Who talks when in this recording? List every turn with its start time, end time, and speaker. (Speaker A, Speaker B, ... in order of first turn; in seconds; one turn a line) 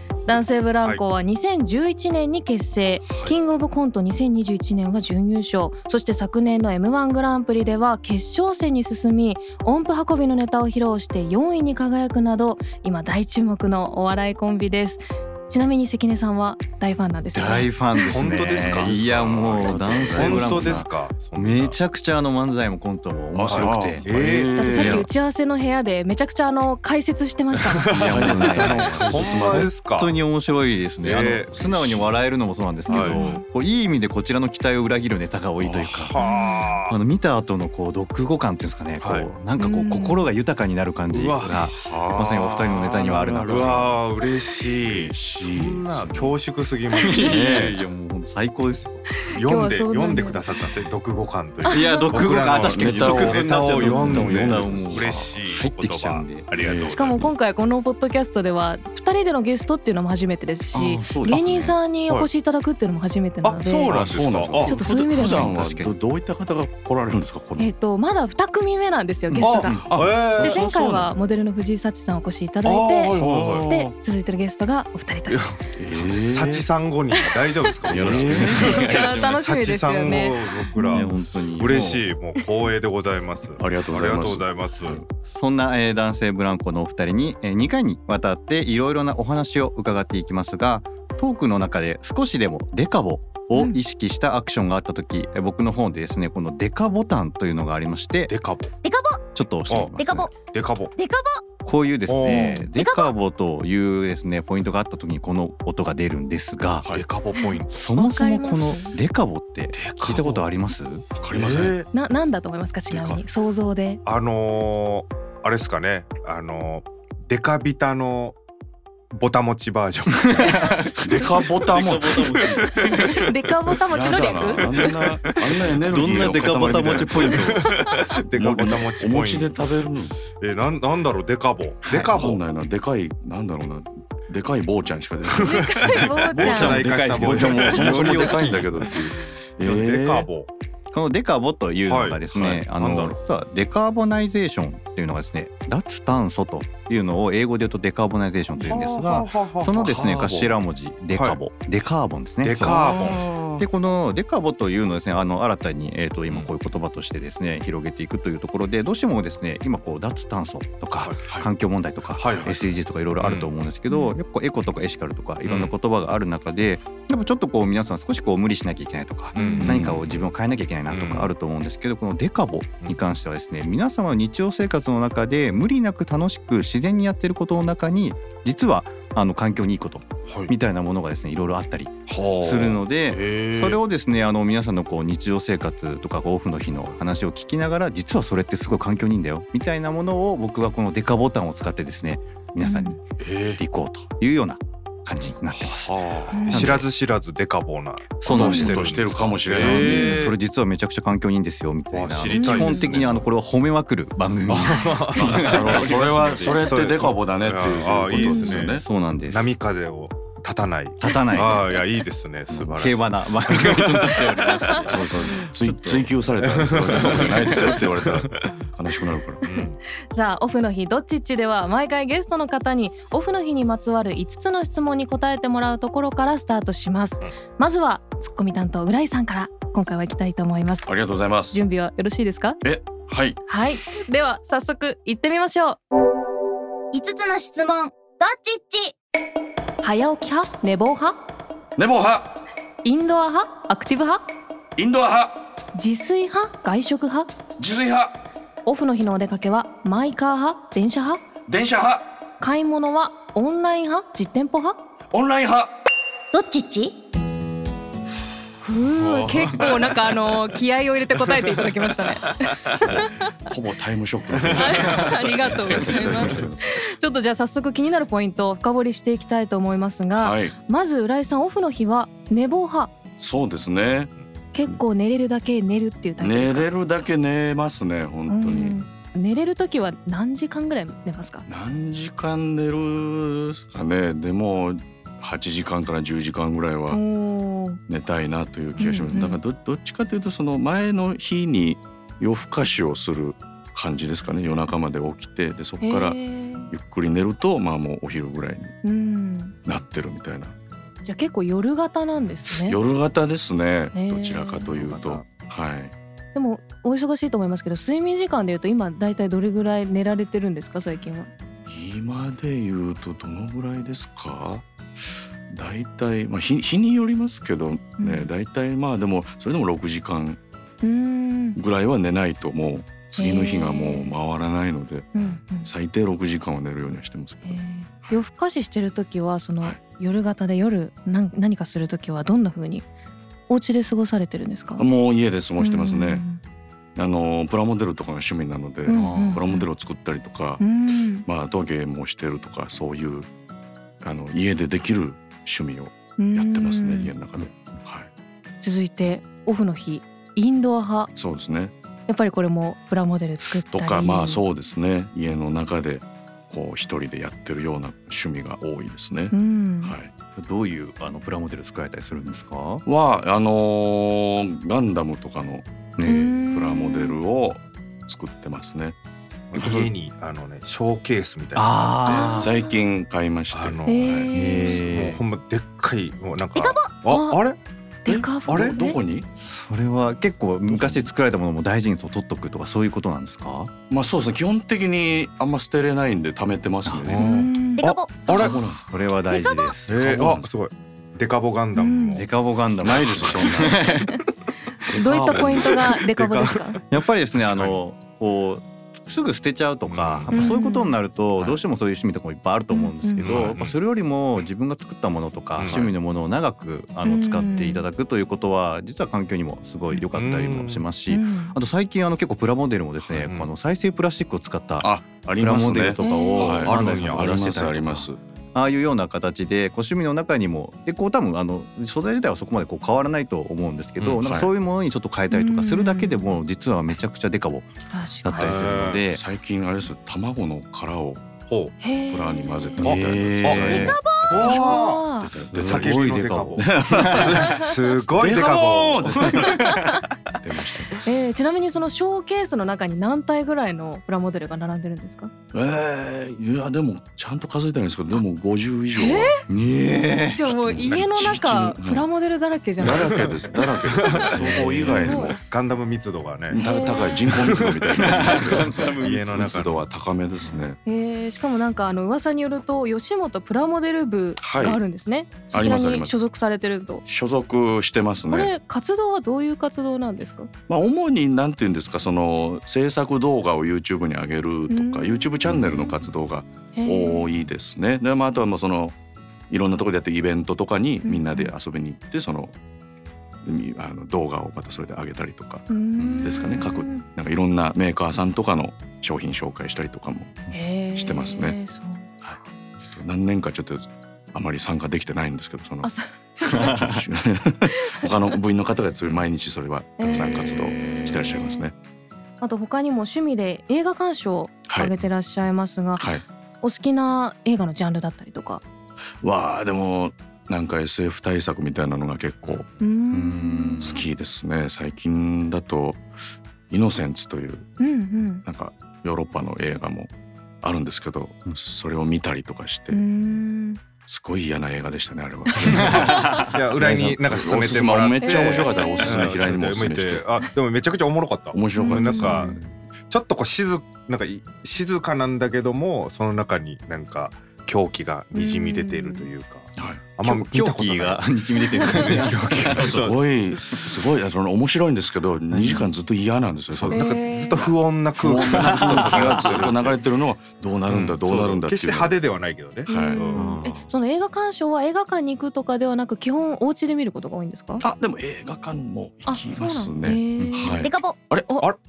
Speaker A: 0.2-18.3
Speaker B: 3.1-3.3
Speaker C: 17.3-24.1
Speaker D: 18.1-21.8
Speaker B: 18.3-20.8
Speaker B: 23.4-25.1
Speaker D: 23.4-24.7
Speaker A: 24.6-27.9
Speaker C: 24.7-25.1
Speaker C: 27.5-36.2
Speaker D: 27.8-30.2
Speaker B: 27.9-29.7
Speaker D: 31.0-32.1
Speaker A: 32.9-33.4
Speaker D: 32.9-33.2
Speaker D: 35.6-36.9
Speaker A: 36.2-36.8
Speaker C: 36.9-44.0
Speaker D: 39.0-39.3
Speaker A: 39.6-40.3
Speaker D: 41.1-41.7
Speaker B: 41.7-44.0
Speaker D: 42.9-47.6
Speaker B: 44.7-46.4
Speaker C: 46.9-49.1
Speaker B: 47.1-47.8
Speaker A: 49.2-50.4
Speaker D: 49.3-57.3
Speaker A: 51.6-52.1
Speaker C: 51.7-56.5
Speaker B: 52.6-55.2
Speaker B: 56.5-57.3
Speaker A: 56.9-63.9
Speaker C: 60.7-61.8
Speaker D: 63.4-64.8
Speaker B: 63.9-67.7
Speaker A: 64.6-65.5
Speaker C: 64.7-65.9
Speaker A: 67.6-69.8
Speaker D: 69.3-70.6
Speaker B: 69.7-71.1
Speaker A: 70.4-75.4
Speaker D: 72.6-73.7
Speaker B: 73.1-73.9
Speaker D: 75.3-85.0
Speaker B: 75.8-76.7
Speaker B: 77.9-78.8
Speaker C: 77.9-79.4
Speaker A: 78.5-81.1
Speaker C: 80.9-82.0
Speaker B: 83.6-85.0
Speaker C: 85.3-98.3
Speaker D: 98.3-98.7
Speaker E: 98.8-99.1
Speaker C: 99.3-100.3
Speaker D: 99.7-100.9
Speaker E: 101.0-101.3
Speaker C: 101.6-106.9
Speaker D: 102.1-102.7
Speaker A: 102.3-102.7
Speaker E: 102.8-103.0
Speaker D: 106.8-107.8
Speaker A: 107.3-109.0
Speaker C: 107.7-111.0
Speaker D: 109.7-110.5
Speaker B: 111.2-111.8
Speaker D: 111.3-111.9
Speaker A: 111.9-114.0
Speaker B: 112.9-113.2
Speaker D: 114.0-118.4
Speaker D: 119.1-120.9
Speaker C: 120.3-121.0
Speaker B: 121.0-122.6
Speaker C: 121.6-123.3
Speaker D: 122.6-122.9
Speaker A: 123.0-125.0
Speaker B: 123.9-127.7
Speaker C: 125.8-128.1
Speaker D: 126.7-132.4
Speaker B: 128.3-130.2
Speaker B: 131.8-140.3
Speaker D: 135.2-138.9
Speaker A: 135.4-136.8
Speaker C: 136.4-138.6
Speaker D: 139.6-140.5
Speaker C: 140.9-193.0
Speaker D: 141.8-143.2
Speaker D: 148.6-150.6
Speaker D: 151.1-151.4
Speaker D: 152.4-153.2
Speaker B: 152.6-153.7
Speaker D: 162.2-162.6
Speaker D: 163.2-163.5
Speaker A: 163.9-164.2
Speaker D: 165.4-165.7
Speaker D: 169.3-170.3
Speaker A: 169.3-169.7
Speaker B: 169.6-170.0
Speaker D: 170.9-171.3
Speaker D: 180.3-180.5
Speaker B: 182.1-183.8
Speaker D: 182.3-182.8
Speaker A: 192.6-193.0
Speaker B: 193.2-193.6
Speaker C: 193.6-196.9
Speaker D: 195.8-200.3
Speaker A: 196.3-196.8
Speaker C: 198.2-198.8
Speaker B: 198.3-200.1
Speaker C: 199.5-206.7
Speaker A: 199.8-200.3
Speaker D: 201.9-203.3
Speaker A: 202.3-203.0
Speaker D: 204.5-214.9
Speaker A: 204.6-205.1
Speaker B: 205.1-208.8
Speaker A: 208.1-208.6
Speaker C: 208.8-209.5
Speaker C: 211.0-211.7
Speaker C: 212.5-216.1
Speaker B: 214.8-219.4
Speaker D: 216.4-218.5
Speaker D: 219.4-219.8
Speaker A: 219.5-230.9
Speaker B: 230.9-231.6
Speaker A: 231.5-232.6
Speaker B: 232.6-233.4
Speaker A: 233.4-235.8
Speaker E: 236.9-238.9
Speaker A: 239.8-241.2
Speaker B: 241.8-242.4
Speaker A: 242.8-244.2
Speaker B: 244.8-245.4
Speaker A: 245.7-247.3
Speaker B: 247.6-248.2
Speaker A: 248.6-251.2
Speaker B: 251.4-252.1
Speaker A: 252.4-254.8
Speaker B: 255.1-255.7
Speaker E: 256.3-256.9
Speaker A: 258.6-263.3
Speaker D: 258.8-260.4
Speaker D: 261.2-262.7
Speaker B: 262.9-266.6
Speaker D: 264.3-265.0
Speaker A: 264.5-272.9
Speaker D: 265.5-266.3
Speaker B: 270.2-270.5
Speaker B: 273.2-274.1
Speaker A: 274.5-276.7
Speaker B: 276.2-278.8
Speaker A: 278.3-281.4
Speaker B: 281.5-287.0
Speaker A: 286.9-287.8
Speaker B: 287.9-298.7
Speaker A: 288.8-289.4
Speaker A: 295.8-296.7
Speaker A: 298.8-299.6
Speaker B: 299.6-300.5
Speaker A: 301.0-302.8
Speaker B: 302.2-305.9
Speaker A: 303.9-304.8
Speaker D: 304.7-305.2
Speaker A: 306.3-311.3
Speaker B: 311.6-314.6
Speaker B: 315.5-320.4
Speaker A: 318.0-318.3
Speaker A: 320.8-321.6
Speaker B: 321.5-327.6
Speaker A: 323.2-324.1
Speaker A: 325.1-325.7
Speaker A: 327.4-332.9
Speaker A: 333.5-334.9
Speaker B: 334.8-336.2
Speaker A: 335.6-336.4
Speaker B: 336.9-340.7
Speaker A: 338.9-339.6
Speaker C: 338.9-339.4
Speaker A: 340.6-341.3
Speaker B: 341.2-343.3
Speaker B: 344.0-348.1
Speaker A: 346.2-347.1
Speaker A: 348.6-351.1
Speaker B: 351.1-351.7
Speaker A: 352.1-354.4
Speaker B: 353.7-360.1
Speaker A: 359.3-359.9
Speaker C: 360.4-362.8
Speaker B: 362.8-365.6
Speaker C: 366.0-366.4
Speaker A: 366.0-367.2
Speaker B: 366.5-368.9
Speaker D: 369.5-371.7
Speaker B: 369.5-369.9
Speaker C: 371.5-372.5
Speaker A: 372.1-372.6
Speaker B: 372.4-374.3
Speaker D: 373.5-377.6
Speaker A: 373.8-374.8
Speaker C: 374.3-375.2
Speaker A: 377.1-377.4
Speaker A: 378.0-379.0
Speaker B: 378.1-379.3
Speaker D: 378.4-378.8
Speaker C: 379.4-383.7
Speaker B: 380.6-381.1
Speaker B: 383.9-387.3
Speaker C: 386.9-387.2
Speaker D: 387.1-388.7
Speaker A: 387.2-387.8
Speaker E: 387.9-388.2
Speaker B: 388.3-388.9
Speaker C: 388.5-390.0
Speaker E: 389.4-389.7
Speaker D: 389.9-392.3
Speaker B: 390.0-390.5
Speaker A: 391.8-392.2
Speaker C: 392.1-394.2
Speaker B: 392.8-393.9
Speaker A: 394.9-396.8
Speaker C: 394.9-427.7
Speaker D: 394.9-397.8
Speaker D: 399.9-400.3
Speaker A: 400.3-400.9
Speaker A: 402.7-403.4
Speaker D: 403.2-403.8
Speaker D: 405.6-405.9
Speaker B: 405.6-405.9
Speaker A: 407.0-407.9
Speaker D: 410.1-410.9
Speaker A: 411.1-411.6
Speaker D: 413.0-413.5
Speaker B: 414.8-418.2
Speaker A: 416.0-416.6
Speaker D: 416.3-417.2
Speaker B: 424.0-424.5
Speaker A: 425.3-426.4
Speaker A: 427.9-428.5
Speaker C: 428.2-429.2
Speaker D: 428.3-429.0
Speaker B: 429.1-431.2
Speaker D: 431.5-431.7
Speaker A: 431.8-432.9
Speaker B: 432.1-434.6
Speaker C: 432.8-434.0
Speaker D: 432.8-439.5
Speaker A: 434.4-435.3
Speaker B: 435.2-439.8
Speaker C: 435.2-437.3
Speaker C: 439.2-439.8
Speaker B: 440.4-441.0
Speaker A: 441.0-445.3
Speaker B: 445.5-449.4
Speaker A: 448.9-449.3
Speaker C: 449.5-450.5
Speaker A: 450.3-453.4
Speaker B: 450.4-452.0
Speaker B: 452.8-455.4
Speaker D: 452.8-456.6
Speaker A: 454.0-455.3
Speaker B: 456.5-460.8
Speaker A: 456.5-457.2
Speaker D: 457.2-459.9
Speaker C: 457.9-459.2
Speaker A: 460.8-467.0
Speaker B: 464.4-464.8
Speaker B: 465.5-466.1
Speaker B: 467.0-468.5
Speaker A: 468.3-470.5
Speaker B: 470.7-478.9
Speaker A: 474.7-476.0
Speaker A: 476.7-477.3
Speaker B: 479.5-482.5
Speaker A: 481.0-481.5
Speaker B: 483.4-485.6
Speaker A: 485.7-487.1
Speaker C: 486.0-486.6
Speaker B: 486.2-490.4
Speaker A: 490.5-492.1
Speaker B: 490.9-491.6
Speaker B: 492.2-495.9
Speaker A: 495.8-496.7
Speaker B: 496.4-501.7
Speaker A: 500.0-501.7
Speaker C: 500.1-501.1
Speaker A: 502.4-506.1
Speaker B: 504.7-504.9
Speaker B: 506.0-506.2
Speaker A: 506.6-508.6
Speaker B: 509.2-512.6
Speaker A: 512.8-514.0
Speaker C: 513.1-514.0
Speaker B: 513.8-516.0
Speaker B: 516.7-517.7
Speaker A: 517.8-518.4
Speaker B: 518.4-520.1
Speaker B: 520.6-523.0
Speaker A: 522.9-523.8
Speaker B: 524.1-530.2
Speaker A: 525.5-526.4
Speaker C: 525.7-526.6
Speaker D: 526.5-532.5
Speaker A: 528.2-529.2
Speaker B: 531.5-532.4
Speaker A: 531.8-532.6
Speaker C: 532.4-532.7
Speaker D: 533.1-543.2
Speaker A: 538.3-539.3
Speaker B: 539.8-540.0
Speaker C: 540.2-543.0
Speaker A: 541.8-542.2
Speaker B: 542.6-547.1
Speaker C: 545.5-545.9
Speaker D: 546.7-549.9
Speaker A: 546.9-547.7
Speaker B: 547.6-552.2
Speaker C: 548.5-549.6
Speaker D: 550.9-553.6
Speaker B: 552.9-553.2
Speaker A: 552.9-557.8
Speaker C: 553.3-553.8
Speaker B: 557.8-561.5
Speaker A: 559.2-560.9
Speaker C: 560.4-560.7